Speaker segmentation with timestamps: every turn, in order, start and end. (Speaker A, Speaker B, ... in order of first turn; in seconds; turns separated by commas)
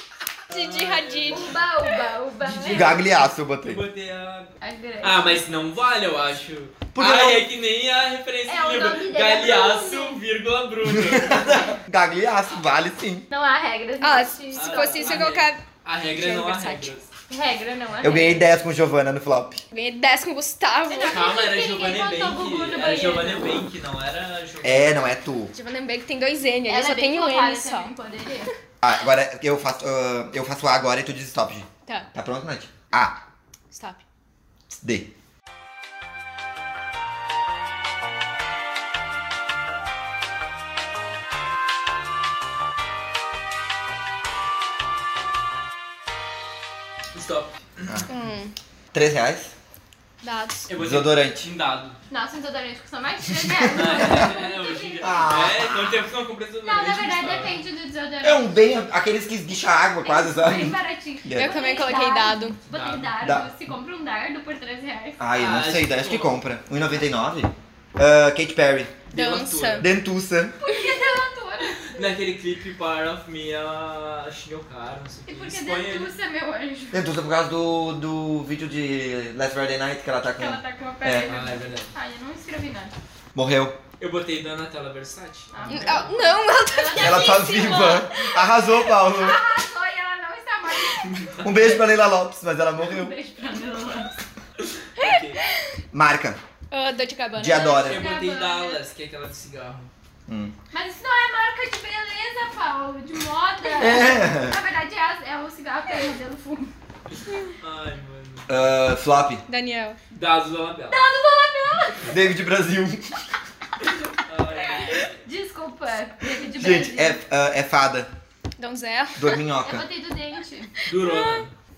Speaker A: 0.5-1.6, Speaker B: 0.5-1.6, Speaker C: 1.3-3.0, Speaker A: 2.4-11.8, Speaker D: 2.7-3.8, Speaker C: 4.6-5.4, Speaker D: 6.9-7.5, Speaker C: 8.5-10.2, Speaker D: 10.9-13.3, Speaker C: 13.3-15.2, Speaker B: 14.0-16.9, Speaker A: 14.6-17.1, Speaker C: 17.3-18.4, Speaker D: 18.0-19.6, Speaker B: 19.7-21.2, Speaker C: 20.9-23.6, Speaker A: 21.1-25.1, Speaker D: 24.6-25.5, Speaker B: 25.5-27.9, Speaker C: 26.7-28.5, Speaker D: 28.8-33.2, Speaker B: 33.7-34.0, Speaker D: 34.7-35.1, Speaker A: 47.1-48.0, Speaker B: 48.1-48.5, Speaker D: 48.9-49.5, Speaker B: 50.2-50.7, Speaker A: 50.7-52.0, Speaker D: 50.8-51.5, Speaker C: 52.1-55.4, Speaker D: 53.5-53.8, Speaker A: 53.7-57.6, Speaker D: 55.0-56.0, Speaker C: 56.6-58.5, Speaker D: 58.2-61.5, Speaker C: 60.0-65.2, Speaker B: 61.4-62.6, Speaker A: 62.7-63.1, Speaker D: 63.2-63.5, Speaker D: 65.2-69.0, Speaker A: 65.3-66.4, Speaker A: 69.1-69.9, Speaker B: 69.1-69.9, Speaker D: 69.8-70.6, Speaker C: 70.6-72.2, Speaker A: 71.9-76.1, Speaker C: 75.3-77.0, Speaker D: 76.9-81.3, Speaker C: 80.4-82.9, Speaker A: 81.2-81.9, Speaker D: 83.3-83.8, Speaker A: 84.0-86.3, Speaker C: 85.5-91.4, Speaker B: 85.7-87.8, Speaker D: 86.9-89.4, Speaker A: 91.0-91.5, Speaker D: 91.4-93.1, Speaker C: 92.8-94.2, Speaker A: 94.6-95.4, Speaker B: 95.0-95.7, Speaker D: 95.9-96.4, Speaker B: 96.7-97.8, Speaker D: 97.4-98.1, Speaker C: 97.5-98.8, Speaker A: 97.8-99.9, Speaker D: 100.3-100.5, Speaker C: 100.7-106.7, Speaker D: 103.8-104.6, Speaker A: 107.6-108.5, Speaker D: 108.5-109.4, Speaker B: 109.5-110.0, Speaker A: 110.1-111.0, Speaker C: 110.9-112.1, Speaker D: 112.1-113.3, Speaker A: 114.2-115.2, Speaker C: 115.2-117.2, Speaker D: 116.6-118.1, Speaker B: 118.6-119.5, Speaker D: 119.2-119.9, Speaker C: 119.6-120.7, Speaker B: 120.9-121.4, Speaker A: 120.9-121.5